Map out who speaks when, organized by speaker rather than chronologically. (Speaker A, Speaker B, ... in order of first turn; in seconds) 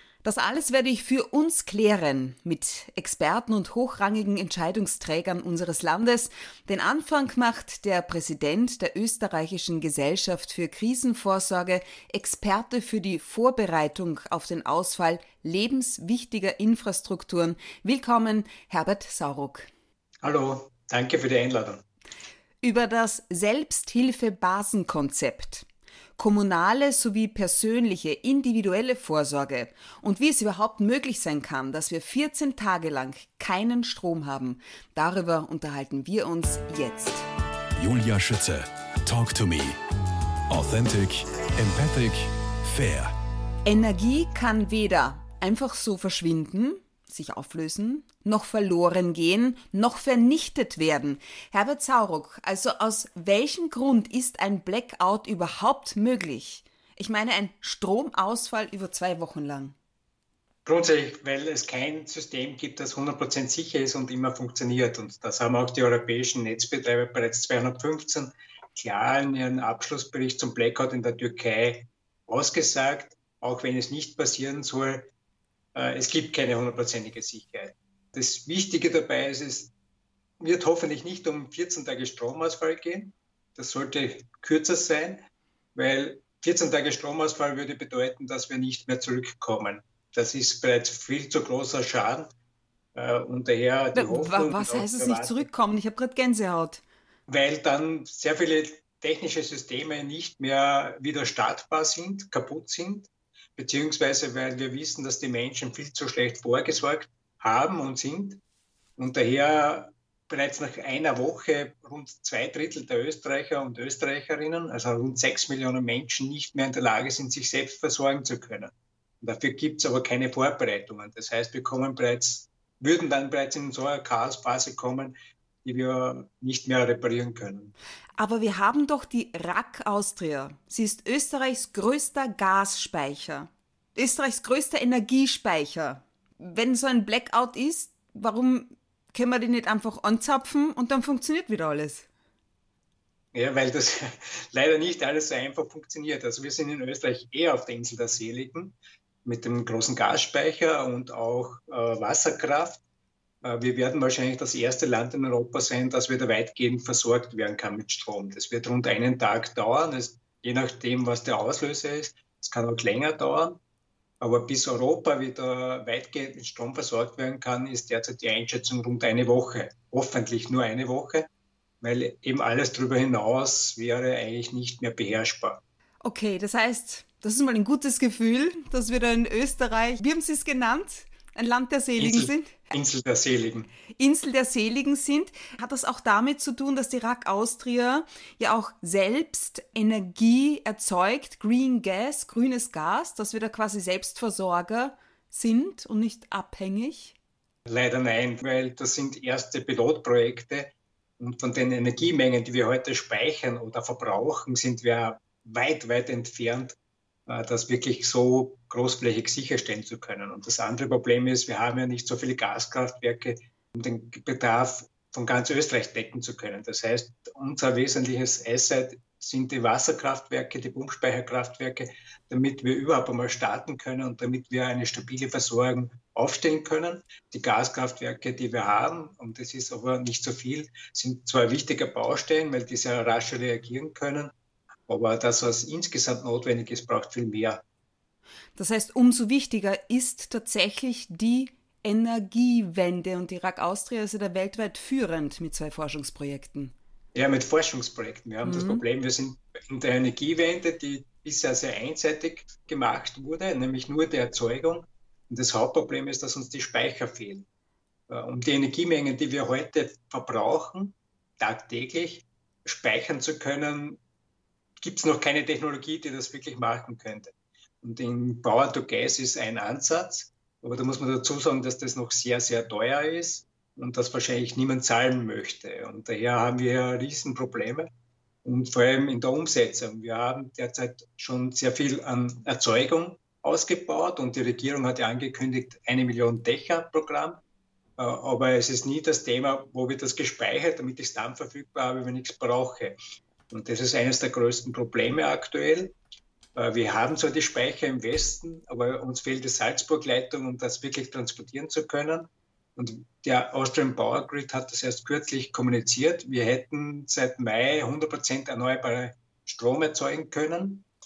Speaker A: 0.2-19.7, 22.6-37.2, 43.6-59.8, 93.9-96.8, 128.2-142.1, 176.0-182.7, 184.0-197.2, 238.6-246.7, 248.4-248.8
Speaker B: 20.2-21.8, 60.6-75.1, 75.7-79.7, 80.4-85.2, 85.7-92.3, 92.9-95.5, 97.3-108.4, 109.0-127.7, 143.3-152.8, 153.4-163.6, 164.2-171.3, 171.8-175.6, 182.0-183.7, 197.7-234.3, 234.9-237.6, 247.1-257.4, 258.1-264.0, 264.8-277.9, 278.4-287.4, 288.0-293.0, 293.5-295.9, 296.5-310.9
Speaker C: 37.8-39.8, 40.5-43.1